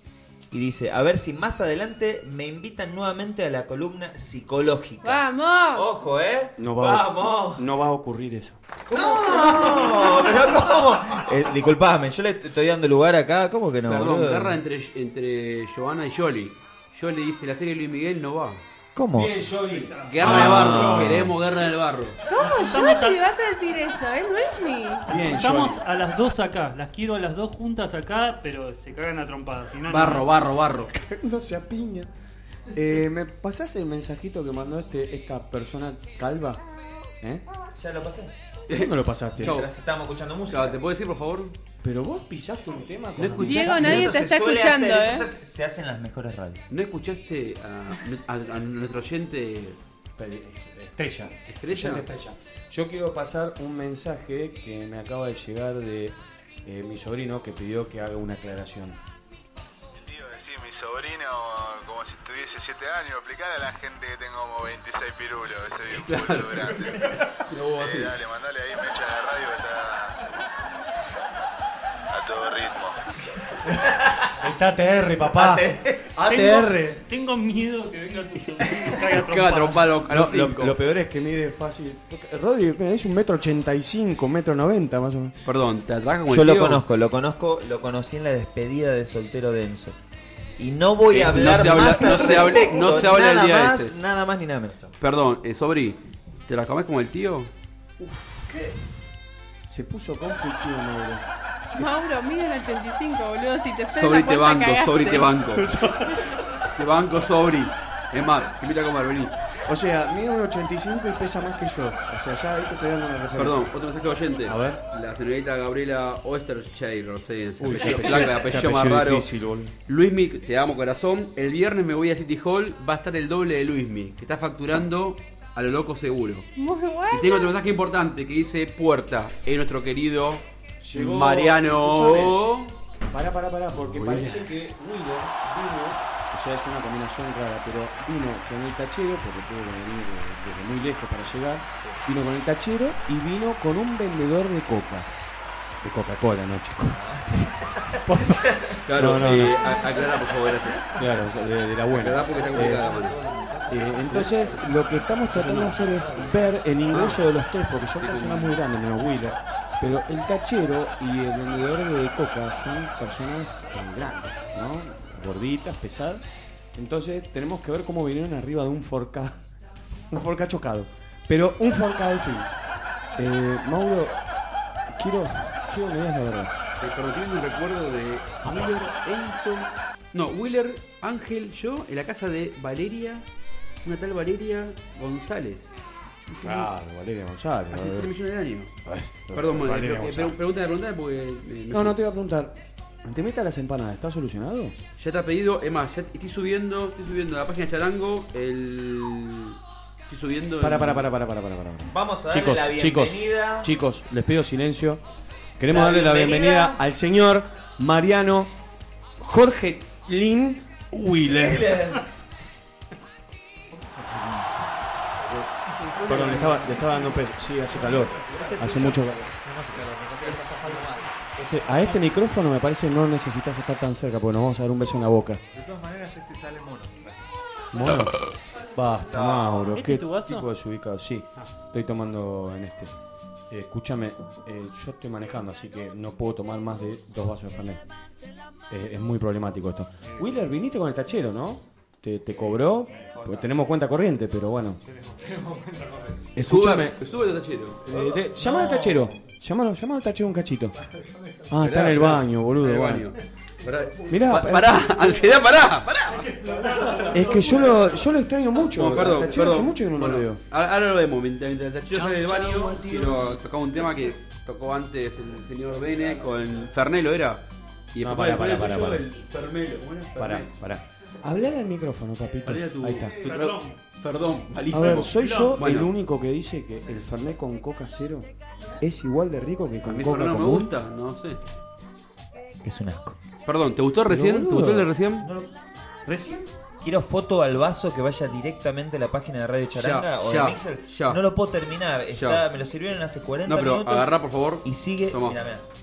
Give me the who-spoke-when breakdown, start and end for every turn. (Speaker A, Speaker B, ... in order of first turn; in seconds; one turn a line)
Speaker A: 0.5-7.6
Speaker B: 5.0-5.8
Speaker C: 6.6-10.9
Speaker A: 8.9-14.6
Speaker D: 13.9-18.6
Speaker A: 18.9-19.5
Speaker C: 19.1-21.3
Speaker D: 20.1-22.2
Speaker A: 20.2-21.3
Speaker B: 22.3-25.1
Speaker E: 22.3-23.2
Speaker C: 25.1-25.8
Speaker E: 25.1-30.2
Speaker D: 29.9-30.9
Speaker C: 30.9-32.1
Speaker C: 32.7-36.6
Speaker A: 37.8-38.3
Speaker D: 38.7-39.7
Speaker C: 38.7-39.6
Speaker A: 39.4-40.8
Speaker D: 40.5-41.5
Speaker C: 41.8-44.1
Speaker D: 43.2-44.1
Speaker B: 43.4-45.3
Speaker A: 43.6-46.6
Speaker D: 46.7-49.8
Speaker C: 50.2-59.0
Speaker D: 51.5-52.1
Speaker F: 59.9-67.1
Speaker D: 65.9-68.2
Speaker F: 67.8-70.2
Speaker F: 72.1-73.0
Speaker C: 73.7-75.7
Speaker A: 74.0-74.3
Speaker A: 75.2-76.7
Speaker E: 76.2-79.9
Speaker C: 76.3-76.9
Speaker D: 79.1-80.8
Speaker C: 80.1-85.3
Speaker D: 85.4-86.8
Speaker A: 86.3-90.0
Speaker A: 90.6-94.9
Speaker D: 91.1-93.9
Speaker C: 92.0-92.9
Speaker D: 95.0-97.5
Speaker C: 98.0-98.8
Speaker C: 99.7-101.2
Speaker B: 101.8-105.3
Speaker D: 103.9-105.8
Speaker C: 105.5-106.3
Speaker D: 106.7-109.3
Speaker C: 109.7-113.7
Speaker D: 113.3-119.3
Speaker C: 114.5-114.8
Speaker C: 117.6-119.7
Speaker D: 119.9-126.5
Speaker B: 126.5-127.5
Speaker D: 127.1-132.7
Speaker C: 130.8-132.4
Speaker C: 133.1-145.1
Speaker D: 133.7-134.5
Speaker C: 145.8-147.0
Speaker A: 146.9-148.8
Speaker C: 148.0-149.7
Speaker D: 148.8-151.0
Speaker A: 149.8-150.5
Speaker C: 150.9-152.9
Speaker D: 151.9-153.2
Speaker A: 152.7-154.3
Speaker C: 153.7-166.2
Speaker D: 154.0-154.4
Speaker D: 155.3-156.3
Speaker D: 156.9-157.2
Speaker D: 158.0-158.6
Speaker C: 166.8-169.4
Speaker C: 170.1-172.5
Speaker C: 173.2-174.2
Speaker C: 174.9-176.5
Speaker D: 176.8-183.2
Speaker C: 178.4-178.8
Speaker D: 183.8-185.8
Speaker D: 186.3-186.7
Speaker C: 186.4-188.1
Speaker D: 187.7-188.7
Speaker C: 188.8-190.3
Speaker D: 189.3-192.0
Speaker C: 191.7-194.8
Speaker D: 195.0-201.1
Speaker C: 200.6-205.0
Speaker A: 201.8-203.7
Speaker C: 205.6-208.5
Speaker A: 205.7-206.8
Speaker C: 209.2-212.0
Speaker A: 211.3-212.0
Speaker C: 215.9-219.3
Speaker G: 216.0-216.8
Speaker G: 218.2-218.7
Speaker G: 219.4-221.2
Speaker C: 221.4-225.4
Speaker G: 225.5-227.2
Speaker C: 227.7-228.2
Speaker C: 228.7-232.9
Speaker A: 229.1-229.7
Speaker E: 229.7-230.5
Speaker C: 233.5-237.8
Speaker C: 238.7-244.8
Speaker G: 242.9-243.5
Speaker G: 244.8-246.3
Speaker C: 246.3-246.9
Speaker D: 246.4-247.8
Speaker C: 247.8-250.7
Speaker A: 247.9-249.1
Speaker G: 250.8-251.5
Speaker C: 251.5-253.1
Speaker D: 251.6-256.3
Speaker C: 254.1-254.8
Speaker E: 256.4-257.9
Speaker G: 256.5-257.1
Speaker C: 257.1-260.4
Speaker D: 258.6-270.5
Speaker C: 261.9-263.4
Speaker C: 268.0-269.0
Speaker C: 270.1-273.2
Speaker D: 272.4-275.9
Speaker E: 273.2-273.8
Speaker C: 274.7-278.3
Speaker E: 274.8-275.6
Speaker C: 278.8-280.7
Speaker D: 279.8-281.4
Speaker A: 282.6-283.2
Speaker D: 283.4-285.3
Speaker C: 284.1-284.9
Speaker A: 285.2-285.5
Speaker C: 286.1-286.5
Speaker A: 286.8-295.6
Speaker D: 289.7-291.2
Speaker D: 292.1-292.4
Speaker D: 293.5-295.4